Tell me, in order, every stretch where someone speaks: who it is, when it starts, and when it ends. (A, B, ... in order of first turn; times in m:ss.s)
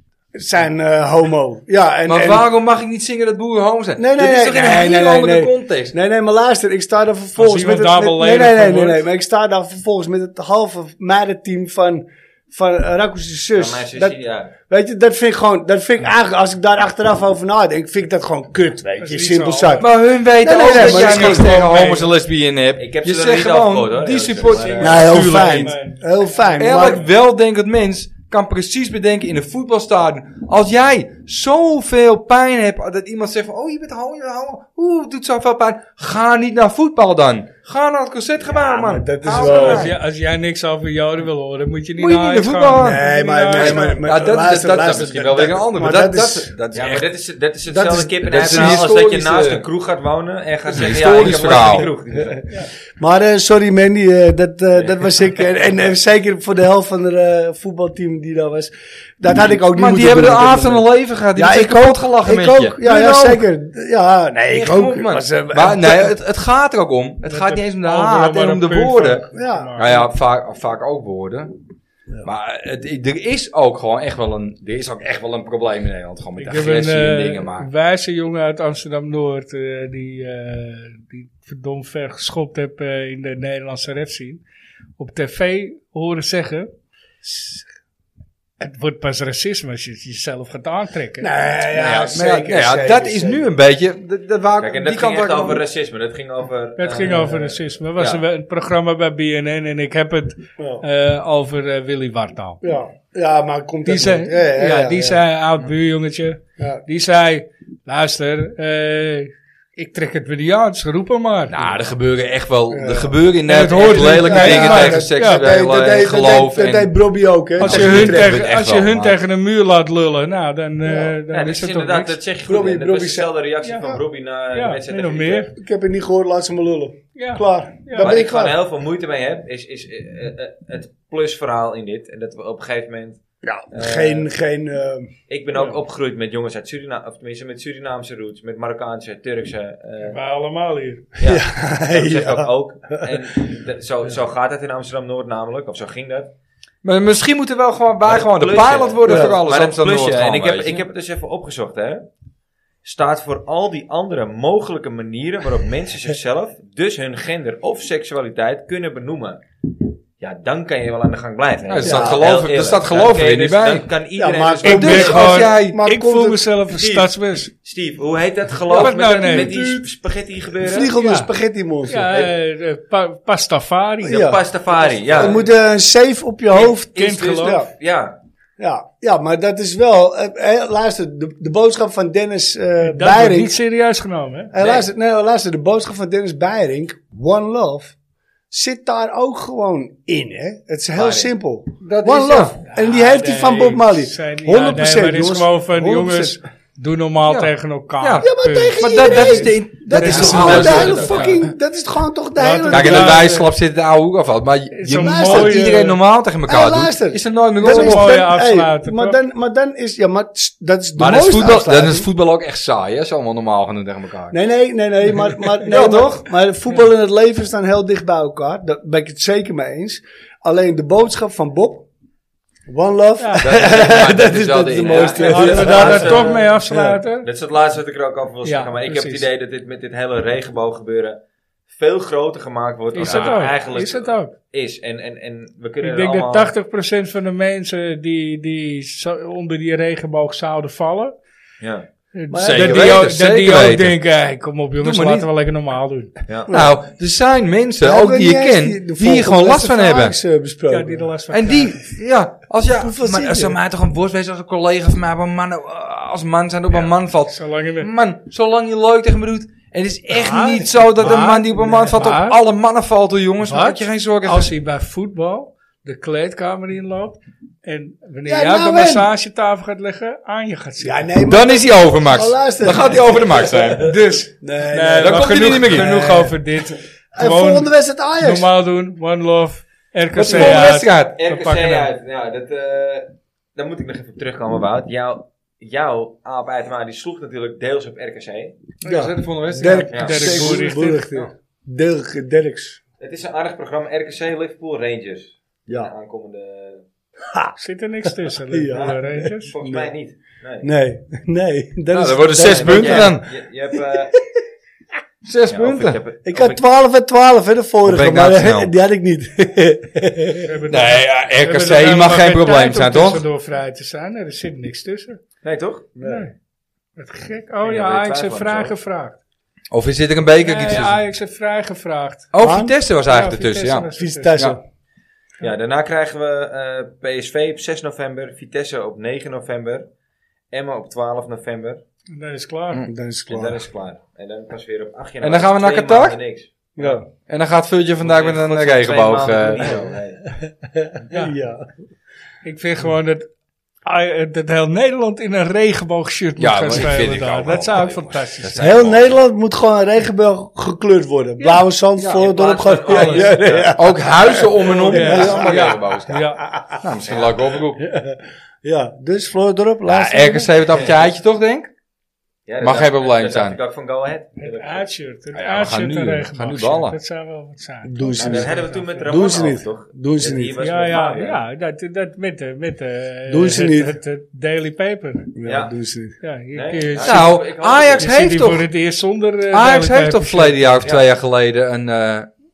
0:00.3-0:02.5 A
0:02.0-0:05.9 B
0:04.0-0:21.9 A
0:07.4-0:09.0 C
0:13.6-0:14.5 D
0:19.0-0:19.8 C
0:19.8-0:25.7 B
0:20.5-0:22.1 C
0:22.8-0:25.2 D
0:24.5-0:27.0 C
0:24.8-0:27.0 A
0:26.6-0:39.9 B
0:38.5-0:39.9 A
0:39.4-0:44.0 C
0:42.0-0:43.0 B
0:42.7-0:46.5 A
0:43.5-0:47.0 B
0:46.7-0:52.5 D
0:47.7-0:48.8 A
0:48.2-0:49.6 B
0:50.7-0:51.9 B
0:53.0-1:06.1 A
0:59.6-1:03.4 B
1:04.5-1:11.5 B
1:07.2-1:10.1 C
1:09.3-1:09.8 A
1:12.2-1:17.7 B
1:16.4-1:24.4 C
1:25.0-1:26.7 C
1:27.2-1:27.6 C
1:28.6-1:31.3 C
1:31.2-1:33.5 A
1:31.7-1:35.6 B
1:34.6-1:38.2 D
1:36.8-1:42.6 C
1:37.0-1:37.4 A
1:40.6-1:40.8 A
1:42.6-1:45.2 A
1:43.8-1:51.6 C
1:51.5-1:56.9 B
1:52.7-1:53.2 A
1:53.4-1:55.5 C
1:53.7-1:58.4 A
1:57.6-1:59.2 B
1:57.6-2:02.2 C
2:00.8-2:01.1 A
2:01.3-2:05.5 D
2:02.4-2:03.3 A
2:03.6-2:04.0 C
2:04.5-2:05.5 C
2:05.6-2:08.6 A
2:07.2-2:08.1 C
2:08.0-2:14.3 D
2:13.4-2:15.7 A
2:15.3-2:20.2 D
2:20.0-2:21.0 C
2:21.2-2:26.3 D
2:21.2-2:23.2 A
2:26.8-2:30.8 B
2:28.0-2:32.0 D
2:29.0-2:29.4 A
2:32.8-2:39.4 D
2:40.2-2:45.5 D
2:41.6-2:43.8 B
2:41.8-2:42.2 A
2:44.2-2:46.5 A
2:44.6-2:47.5 C
2:44.8-2:45.8 B
2:46.7-2:47.1 D
2:47.6-2:50.9 D
2:48.7-2:49.6 C
2:49.2-2:49.9 A
2:50.6-2:52.1 A
2:50.9-2:51.3 C
2:51.9-2:54.4 C
2:54.0-2:55.5 D
2:54.0-2:57.7 A
2:56.5-2:58.2 D
2:56.9-2:57.6 C
2:58.6-3:03.6 A
3:02.8-3:04.5 C
3:04.5-3:07.9 A
3:04.6-3:04.9 D
3:08.5-3:16.4 A
3:10.9-3:11.3 D
3:11.8-3:12.6 B
3:12.7-3:21.5 C
3:17.3-3:21.4 B
3:18.2-3:23.4 A
3:20.2-3:21.1 D
3:22.4-3:23.5 C
3:22.7-3:28.2 B
3:24.7-3:26.0 C
3:25.0-3:25.9 A
3:26.4-3:32.1 A
3:27.6-3:29.2 C
3:31.0-3:34.4 B
3:34.3-3:41.9 A
3:35.6-3:36.2 B
3:42.7-3:47.0 A
3:43.2-3:43.5 C
3:43.4-3:45.3 B
3:44.8-3:46.6 D
3:45.2-3:47.3 C
3:47.2-3:51.2 D
3:48.4-3:49.2 C
3:51.7-3:56.5 D
3:52.9-3:54.3 C
3:53.0-3:53.4 B
3:55.8-4:01.1 C
4:01.6-4:01.8 D
4:02.1-4:06.1 C
4:02.3-4:03.1 A
4:02.4-4:04.0 B
4:04.8-4:05.3 B
4:06.5-4:06.8 A
4:06.5-4:10.1 B
4:07.8-4:11.1 A
4:10.7-4:11.8 C
4:11.3-4:24.5 B
4:12.7-4:13.6 A
4:17.3-4:17.9 C
4:20.1-4:22.4 C
4:23.4-4:31.0 C
4:28.2-4:29.1 A
4:30.8-4:36.4 A
4:31.3-4:34.0 B
4:33.8-4:41.9 C
4:35.0-4:35.9 B
4:37.1-4:38.5 A
4:40.2-4:41.2 B
4:40.3-4:40.6 D
4:41.2-4:48.6 D
4:48.8-4:52.8 A
4:48.8-4:50.6 B
4:49.8-4:51.3 C
4:49.9-4:50.5 D
4:53.0-4:56.8 D
4:57.2-4:57.5 A
4:57.6-4:59.5 C
4:58.0-4:59.9 A
4:58.7-5:00.7 D
5:00.6-5:03.2 A
5:01.9-5:03.3 B
5:02.3-5:04.2 D
5:05.2-5:06.0 B
5:05.5-5:06.6 D
5:06.2-5:10.5 A
5:07.8-5:08.7 B
5:10.4-5:15.2 C
5:10.7-5:13.2 B
5:15.4-5:15.9 D
5:16.0-5:16.3 A
5:16.0-5:16.3 C
5:17.0-5:19.2 C
5:17.6-5:18.7 D
5:19.7-5:21.0 B
5:20.4-5:22.3 C
5:22.3-5:24.6 B
5:22.4-5:22.7 A
5:23.0-5:24.5 C
5:24.0-5:24.6 A
5:25.4-5:29.8 D
5:30.5-5:31.8 D
5:32.1-5:32.8 C
5:32.8-5:33.6 A
5:33.3-5:37.0 D
5:35.2-5:36.2 B
5:36.8-5:37.0 A
5:37.3-5:39.8 B
5:38.0-5:40.2 D
5:39.6-5:39.9 A
5:40.7-5:41.7 A
5:42.4-5:43.3 C
5:43.8-5:48.6 C
5:46.4-5:49.2 B
5:48.6-5:56.8 A
5:51.4-5:51.7 C
5:52.0-5:52.2 B
5:52.0-5:53.8 D
5:52.8-5:53.3 C
5:53.7-5:57.8 B
5:54.6-5:56.4 C
5:57.0-5:57.4 D
5:57.8-6:00.5 A
5:59.9-6:01.7 B
6:00.7-6:01.1 D
6:02.4-6:04.9 D
6:02.6-6:03.6 B
6:04.4-6:09.0 C
6:05.3-6:07.0 B
6:07.8-6:10.6 A
6:08.1-6:11.4 D
6:10.6-6:15.3 C
6:13.3-6:14.0 A
6:15.3-6:16.2 A
6:15.4-6:15.7 D
6:16.2-6:17.4 C
6:16.5-6:18.1 D
6:17.0-6:18.7 B
6:18.0-6:20.8 C
6:19.5-6:22.3 B
6:20.8-6:21.1 D